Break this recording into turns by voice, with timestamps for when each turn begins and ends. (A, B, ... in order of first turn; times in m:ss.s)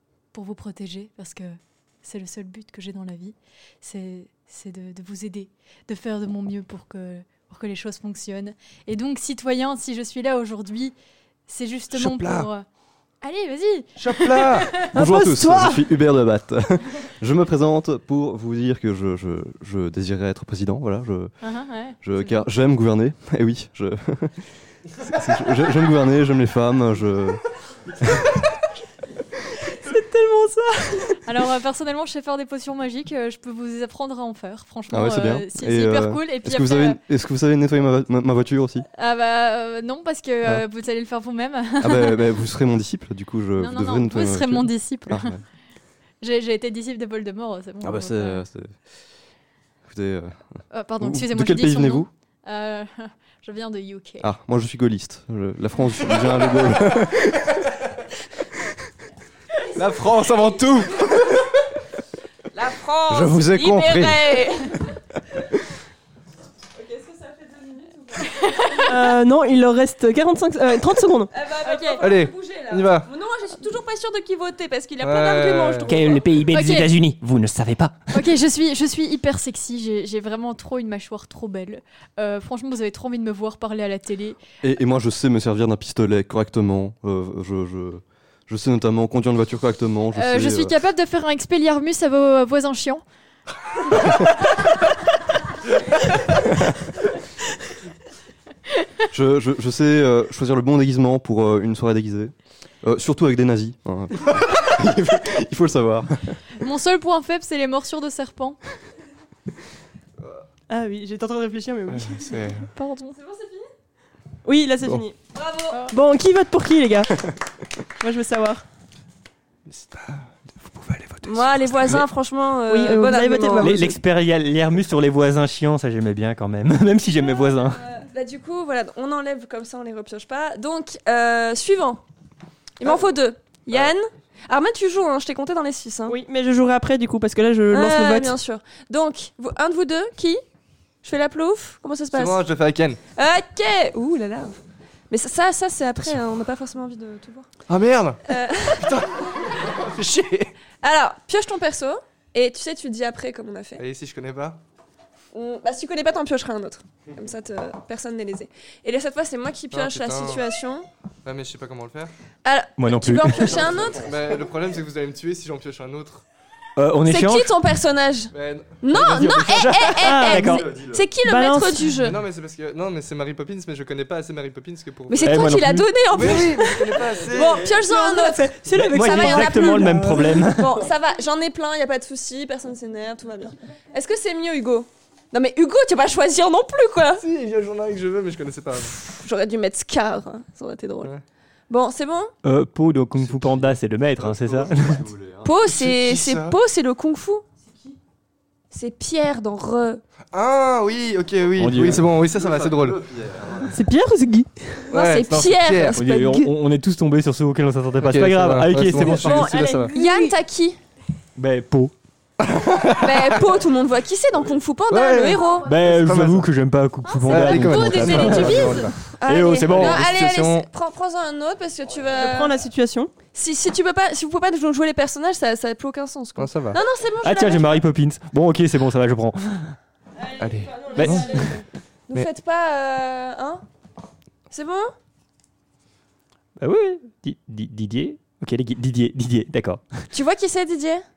0:00.3-0:10.9 A
0:11.5-0:12.6 A
0:11.9-0:12.5 B
0:13.2-0:14.9 A
0:14.0-0:14.8 B
0:14.8-0:21.3 C
0:14.9-0:15.9 D
0:21.4-0:22.4 A
0:22.0-0:24.4 C
0:25.0-0:27.4 C
0:29.7-0:31.2 D
0:31.2-0:37.0 A
0:34.9-0:38.8 C
0:39.0-0:42.3 A
0:41.8-0:45.4 C
0:43.6-0:45.4 A
0:46.2-0:48.4 A
0:47.8-0:48.8 C
0:49.9-0:52.1 C
0:50.7-0:54.3 A
0:54.2-0:57.5 C
0:59.7-1:01.4 B
1:02.5-1:04.8 E
1:03.1-1:04.5 C
1:06.8-1:08.9 E
1:08.8-1:12.0 D
1:11.3-1:16.2 E
1:12.0-1:13.1 B
1:15.0-1:16.0 B
1:15.9-1:18.0 F
1:16.5-1:16.9 A
1:18.1-1:24.4 A
1:24.6-1:30.8 C
1:30.1-1:33.0 A
1:39.1-1:46.2 C
1:46.6-1:48.6 A
1:50.7-1:52.5 D
1:51.9-1:52.7 B
1:52.7-1:53.2 A
1:53.1-1:53.7 E
1:54.4-1:55.2 D
1:55.3-1:55.9 E
1:55.9-1:57.3 D
1:58.0-1:58.6 D
1:59.7-2:02.0 B
2:01.2-2:03.7 E
2:02.7-2:04.0 D
2:03.6-2:07.8 F
2:07.6-2:12.0 E
2:12.8-2:16.2 E
2:16.1-2:18.4 D
2:17.7-2:20.4 E
2:21.0-2:22.4 E
2:22.1-2:23.0 B
2:23.2-2:24.6 E
2:25.1-2:27.5 E
2:27.7-2:30.5 B
2:28.3-2:29.0 E
2:30.8-2:33.8 E
2:33.8-2:34.6 B
2:35.3-2:40.8 E
2:39.7-2:40.4 B
2:41.2-2:42.1 B
2:42.4-2:44.1 E
2:42.8-2:43.6 F
2:43.4-2:44.1 C
2:43.9-2:46.2 B
2:46.8-2:47.5 F
2:47.0-2:52.2 E
2:48.3-2:49.7 B
2:49.5-2:50.6 F
2:50.0-2:50.6 D
2:50.3-2:51.0 C
2:51.2-2:52.0 D
2:52.0-2:57.8 B
2:55.1-3:07.2 E
2:55.2-2:55.9 F
2:57.7-3:00.5 D
2:58.8-3:00.8 F
3:07.2-3:09.0 B
3:08.9-3:11.1 E
3:11.7-3:12.3 E
3:12.4-3:15.0 F
3:14.2-3:15.5 C
3:14.3-3:14.6 B
3:15.4-3:17.4 E
3:15.6-3:16.6 B
3:18.7-3:20.0 E
3:20.3-3:23.0 B
3:21.6-3:23.8 C
3:21.6-3:22.0 F
3:23.7-3:24.8 D
3:24.9-3:26.0 B
3:24.9-3:26.5 E
3:25.9-3:29.7 F
3:28.0-3:29.9 B
3:29.0-3:30.8 E
3:29.5-3:29.9 D
3:31.4-3:31.9 F
3:32.4-3:33.4 B
3:33.0-3:35.6 E
3:34.9-3:36.5 B
3:35.6-3:38.7 F
3:37.1-3:37.4 A
3:37.2-3:39.0 B
3:37.3-3:42.6 E
3:38.4-3:38.8 A
3:39.3-3:40.1 F
3:39.6-3:40.7 B
3:42.1-3:43.1 D
3:43.3-3:47.8 E
3:46.4-3:46.8 B
3:47.2-3:49.7 F
3:50.2-3:53.6 E
3:50.4-3:51.5 B
3:50.9-3:51.4 F
3:54.5-3:54.9 E
3:56.6-4:00.1 F
4:00.1-4:01.0 E